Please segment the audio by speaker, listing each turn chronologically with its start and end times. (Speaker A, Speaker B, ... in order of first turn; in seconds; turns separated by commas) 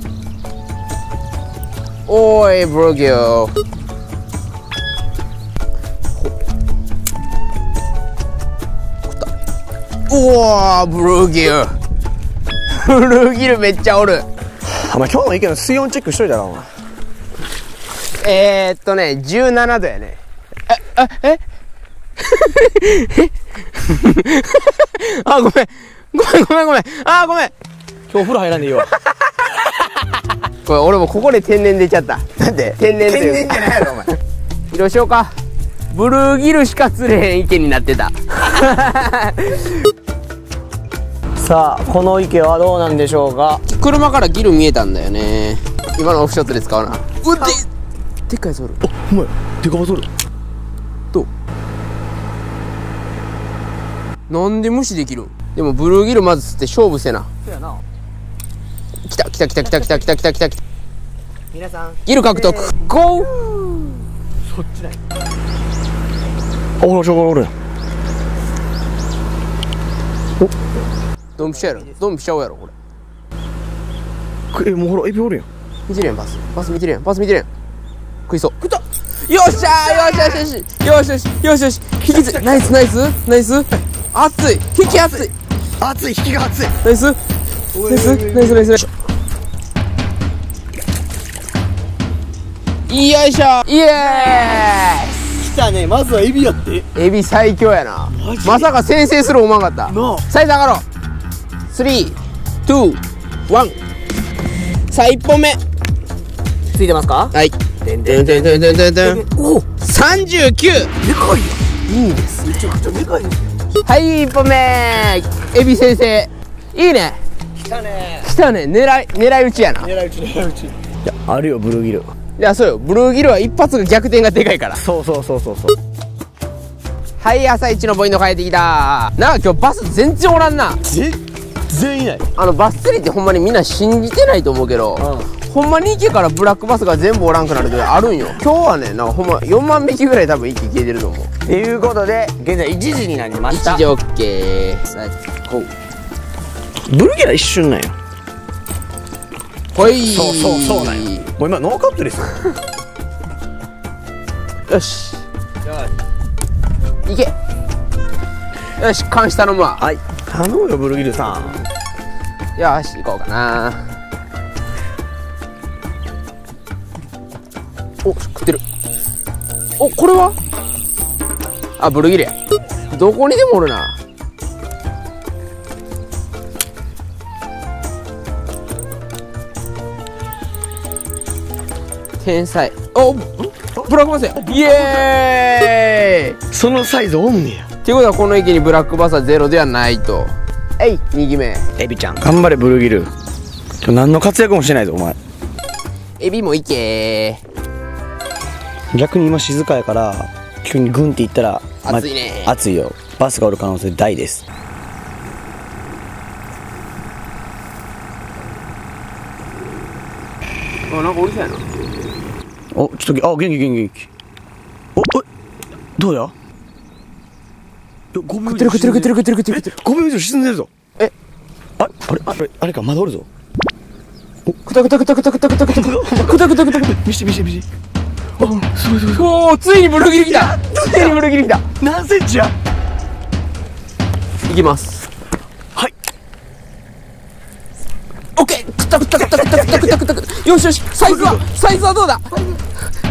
Speaker A: 2.1-3.5, Speaker A: 10.1-11.7, Speaker A: 12.7-14.2, Speaker B: 14.7-16.7, Speaker A: 18.2-20.2, Speaker A: 20.7-21.4, Speaker A: 22.2-27.5, Speaker B: 28.1-29.0, Speaker A: 30.6-32.2, Speaker B: 32.4-34.1, Speaker A: 32.8-34.0, Speaker A: 34.7-35.3, Speaker A: 35.9-39.8, Speaker B: 41.4-43.6, Speaker A: 43.7-47.7, Speaker A: 48.3-48.8, Speaker B: 48.8-50.1, Speaker A: 54.3-57.3, Speaker A: 59.1-60.6, Speaker B: 61.5-62.7, Speaker A: 62.0-63.4, Speaker B: 63.3-63.9, Speaker B: 64.5-65.0, Speaker B: 66.8-67.5, Speaker A: 71.4-72.7, Speaker B: 71.4-71.9, Speaker B: 74.5-75.5, Speaker A: 75.9-77.5, Speaker A: 78.3-78.7, Speaker A: 79.2-85.3, Speaker B: 79.7-80.4, Speaker B: 82.1-82.6, Speaker B: 84.8-85.2, Speaker B: 85.8-86.8, Speaker A: 86.8-87.2, Speaker B: 87.7-88.8, Speaker A: 87.8-88.9, Speaker A: 92.9-95.2, Speaker B: 94.0-94.6, Speaker B: 95.3-96.9, Speaker A: 96.9-100.8, Speaker B: 98.1-98.7, Speaker B: 99.9-100.2, Speaker A: 101.7-103.8, Speaker A: 104.9-105.6, Speaker B: 106.7-109.6, Speaker A: 107.3-110.9, Speaker B: 111.0-111.6, Speaker A: 111.9-112.7, Speaker B: 112.5-113.5, Speaker A: 113.8-117.2, Speaker B: 117.6-118.3, Speaker A: 118.2-119.9, Speaker B: 119.8-122.1, Speaker A: 122.4-124.8, Speaker B: 124.7-125.8, Speaker A: 127.2-130.8, Speaker B: 130.8-132.3, Speaker A: 132.3-141.3, Speaker B: 135.0-135.3, Speaker B: 141.4-143.8, Speaker A: 143.5-145.7, Speaker B: 146.9-147.9, Speaker A: 149.7-151.3, Speaker B: 149.8-152.5, Speaker A: 154.7-155.2, Speaker A: 157.1-157.3, Speaker A: 158.8-159.8, Speaker B: 159.8-161.6, Speaker A: 162.6-163.9, Speaker A: 168.0-168.6, Speaker A: 169.8-170.3, Speaker A: 171.8-172.3, Speaker A: 172.9-173.9, Speaker A: 182.2-186.4, Speaker B: 183.8-185.0, Speaker B: 186.5-187.7, Speaker A: 187.8-191.6, Speaker B: 191.8-193.1, Speaker B: 193.8-195.2, Speaker A: 196.2-197.4, Speaker B: 198.9-204.4, Speaker A: 201.8-202.5, Speaker A: 210.9-211.6, Speaker B: 212.7-214.1, Speaker B: 214.9-215.2, Speaker B: 215.9-216.3, Speaker B: 218.1-220.7, Speaker A: 218.4-219.8, Speaker B: 221.8-223.2, Speaker A: 224.7-226.9, Speaker B: 225.7-227.7, Speaker B: 228.4-229.3, Speaker A: 229.1-231.6, Speaker B: 230.1-231.2, Speaker B: 231.8-232.5, Speaker A: 234.5-235.1, Speaker A: 238.3-242.3, Speaker B: 239.1-240.0, Speaker B: 241.0-241.4